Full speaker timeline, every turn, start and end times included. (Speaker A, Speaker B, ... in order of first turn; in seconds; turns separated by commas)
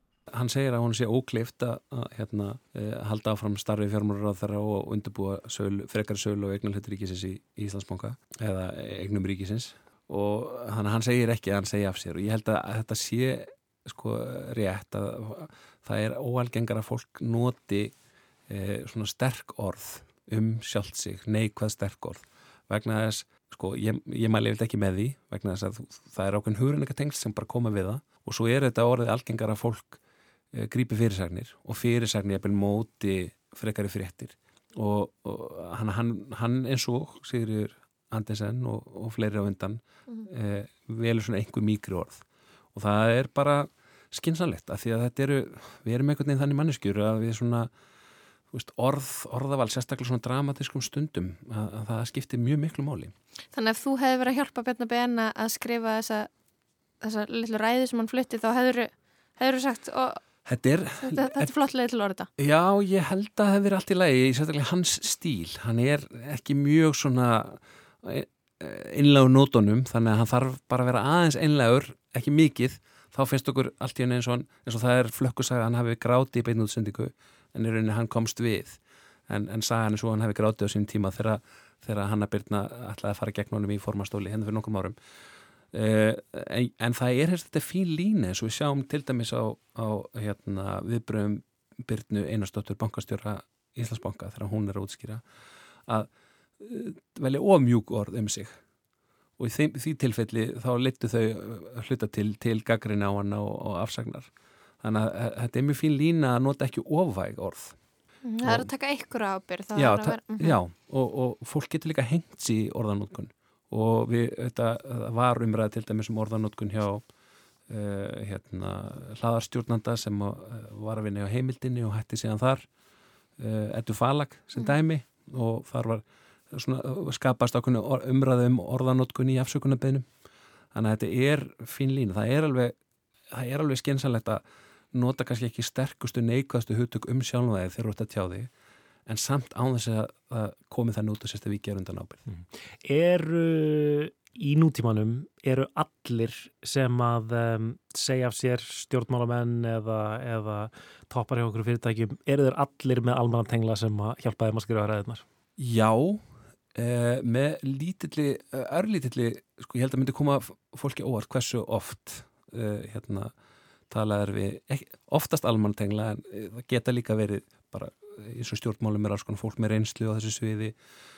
Speaker A: 0.3-17.9, Speaker A: 18.5-30.0, Speaker A: 30.5-47.7, Speaker A: 48.5-53.1, Speaker B: 53.5-56.3, Speaker B: 57.0-60.2, Speaker A: 60.4-61.5, Speaker B: 61.0-62.3, Speaker A: 62.4-85.0, Speaker A: 85.7-95.2, Speaker A: 95.9-98.5, Speaker A: 99.4-104.3, Speaker A: 104.8-107.8, Speaker B: 108.2-110.6, Speaker A: 108.4-108.7, Speaker A: 109.7-117.0, Speaker A: 117.7-122.7, Speaker A: 123.4-130.1, Speaker A: 130.7-132.8, Speaker A: 133.3-138.5, Speaker A: 139.1-142.2, Speaker C: 142.3-155.2, Speaker A: 155.6-156.2, Speaker A: 156.7-163.3, Speaker A: 163.9-170.7